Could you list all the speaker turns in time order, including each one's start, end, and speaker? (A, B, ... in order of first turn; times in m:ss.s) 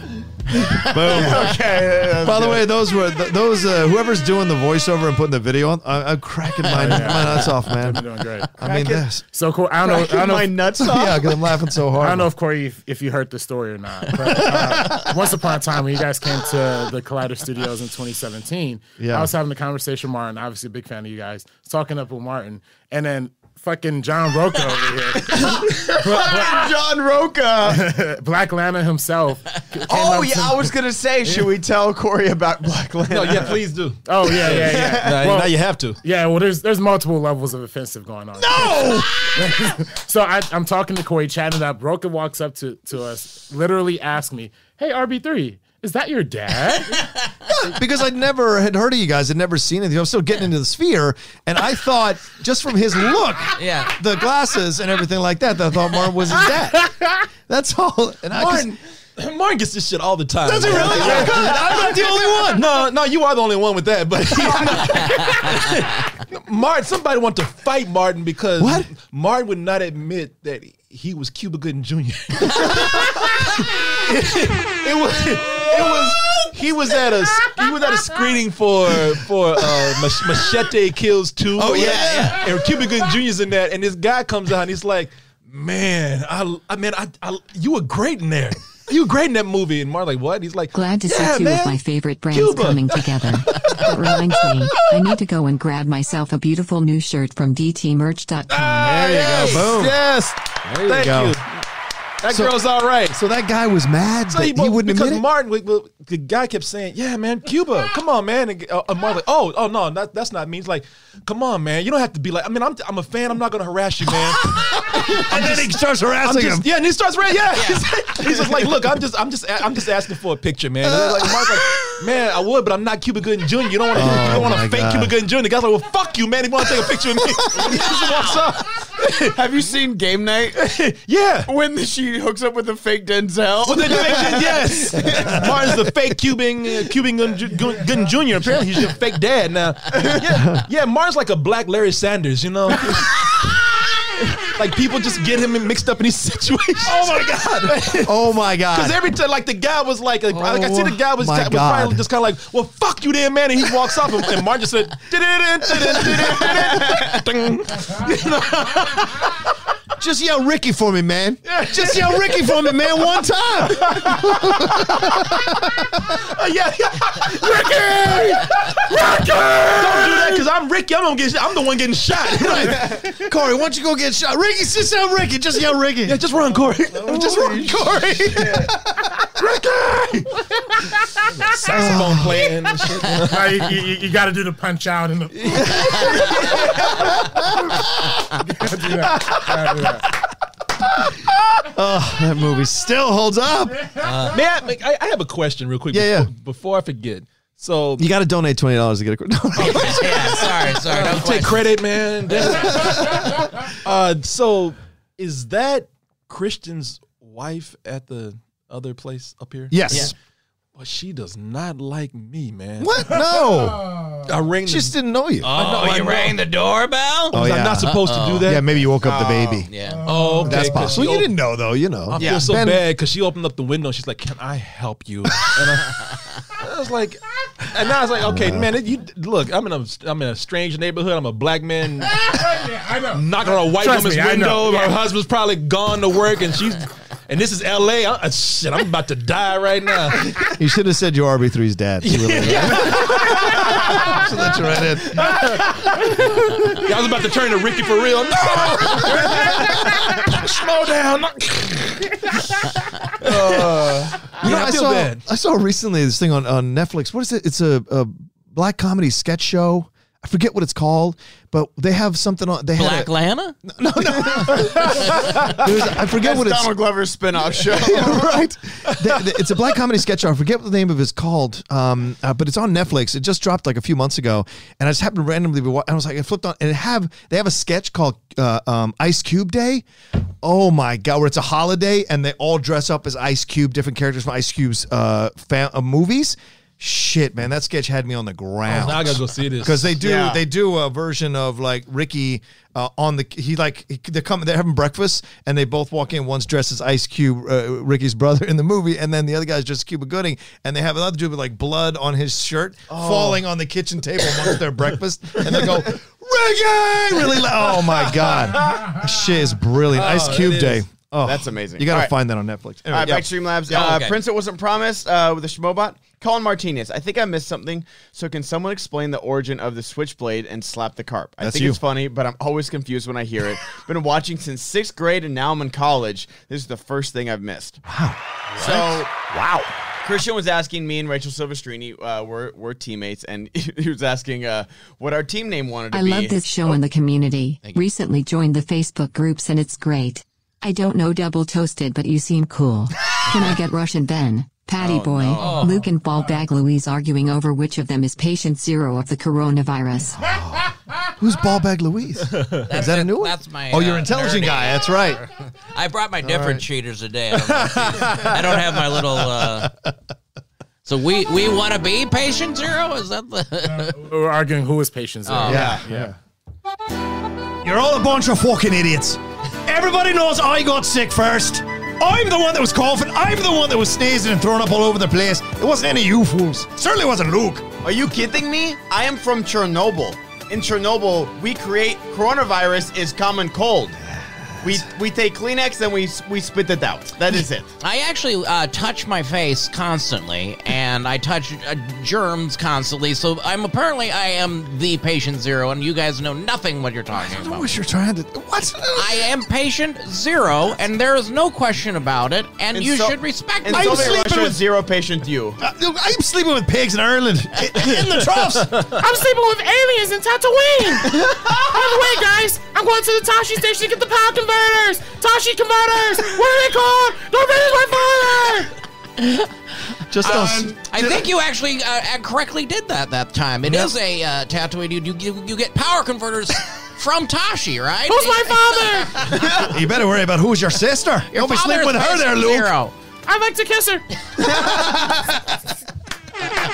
0:00.5-0:01.5 A
0:00.7-0:01.6 B
0:01.0-0:02.7 C
0:02.2-0:08.0 B
0:06.6-0:07.8 A
0:06.7-0:08.5 D
0:08.6-0:09.2 B
0:08.6-0:09.1 C
0:09.3-0:10.7 D
0:09.8-0:11.3 C
0:10.8-0:12.3 B
0:12.0-0:26.8 D
0:14.2-0:15.2 B
0:19.0-0:19.3 B
0:25.2-0:27.9 C
0:27.6-0:30.7 D
0:29.9-0:33.6 C
0:33.1-0:36.0 E
0:34.0-0:47.0 D
0:34.4-0:35.2 C
0:38.4-0:39.1 B
0:47.5-0:57.0 B
0:53.6-0:54.0 A
0:57.5-0:58.7 B
0:58.3-1:35.2 E
1:00.4-1:02.8 B
1:08.6-1:08.9 B
1:12.6-1:12.8 B
1:19.6-1:20.4 B
1:21.6-1:22.5 B
1:21.8-1:22.4 A
1:30.7-1:39.1 F
1:38.5-1:41.4 E
1:38.9-1:41.4 B
1:39.0-1:39.4 A
1:42.2-1:43.2 E
1:42.3-1:42.6 B
1:43.1-1:45.3 B
1:44.3-2:09.4 E
1:54.4-1:56.7 B
1:57.6-1:57.9 A
2:00.9-2:01.8 B
2:03.9-2:05.2 B
2:07.5-2:08.4 A
2:09.3-2:10.6 C
2:10.6-2:11.5 E
2:11.5-2:15.7 C
2:13.7-2:39.4 E
2:15.0-2:15.7 B
2:20.3-2:20.7 B
2:26.8-2:29.0 B
2:30.3-2:32.0 B
2:35.7-2:36.9 B
2:40.0-2:46.2 B
2:41.4-2:43.0 E
2:43.7-2:45.4 E
2:46.0-2:53.0 E
2:48.9-2:50.4 B
2:52.3-2:56.2 B
2:56.0-2:58.6 E
2:56.9-2:59.4 B
2:58.3-2:58.7 C
2:59.4-3:00.4 E
3:01.3-3:03.8 E
3:01.7-3:02.5 B
3:03.1-3:06.2 D
3:05.4-3:07.1 E
3:05.5-3:10.1 B
3:08.5-3:10.1 D
3:11.0-3:14.1 B
3:14.0-3:14.4 A
3:14.3-3:18.1 E
3:15.9-3:16.3 B
3:18.0-3:20.8 B
3:19.6-3:21.8 A
3:19.8-3:30.2 E
3:22.3-3:23.5 B
3:29.7-3:30.1 B
3:30.8-3:33.2 E
3:32.8-3:35.5 B
3:34.2-3:36.4 E
3:35.5-3:37.5 A
3:37.3-3:39.7 B
3:37.3-3:38.8 E
3:38.0-3:38.6 A
3:39.0-3:39.7 C
3:39.7-3:40.2 A
3:40.0-3:41.4 E
3:40.4-3:42.9 B
3:42.1-3:52.6 E
3:42.2-3:42.5 C
3:48.2-3:48.7 B
3:52.1-3:55.0 D
3:53.1-4:00.6 E
4:00.4-4:06.6 B
4:02.0-4:12.3 E
4:09.0-4:10.0 B
4:13.2-4:15.2 E
4:14.4-4:23.1 B
4:22.8-4:23.6 A
4:23.6-4:26.8 B
4:26.1-4:28.3 C
4:27.6-4:39.8 B
4:40.4-5:13.3 B
4:48.7-4:50.0 E
4:50.0-4:50.4 C
5:02.9-5:03.4 E
5:07.6-5:09.0 E
5:09.9-5:10.8 E
5:11.2-5:12.1 C
5:12.9-5:27.8 C
5:13.7-5:14.2 A
5:21.4-5:21.8 B
5:27.8-5:28.2 B
5:28.6-5:29.6 A
5:28.6-5:29.3 C
5:30.0-5:36.8 C
5:35.9-5:50.2 F
5:44.8-5:45.7 C
5:45.4-5:45.9 A
5:50.2-5:55.2 B
5:52.3-5:52.7 E
5:52.7-5:59.7 A
5:56.2-5:56.6 B
5:57.3-5:58.3 E
5:58.5-5:59.9 B
6:00.8-6:04.0 A
6:03.8-6:06.1 D
6:05.3-6:05.8 A
6:05.5-6:06.2 B
6:05.5-6:05.8 C
6:07.6-6:17.7 B
6:17.8-6:24.0 C
6:24.1-6:24.9 B
6:24.6-6:27.7 C
6:27.8-6:37.7 A
6:37.1-6:39.3 B
6:39.0-6:44.2 A
6:42.7-6:45.6 C
6:43.7-6:44.6 B
6:45.6-6:48.9 B
6:47.8-6:49.0 E
6:49.0-6:58.7 D
6:59.2-6:59.5 A
7:00.1-7:01.3 B
7:00.2-7:09.6 A
7:03.6-7:03.9 B
7:08.2-7:09.0 D
7:09.3-7:09.7 C
7:09.4-7:12.7 B
7:11.3-7:13.0 A
7:13.3-7:14.0 D
7:14.4-7:15.4 B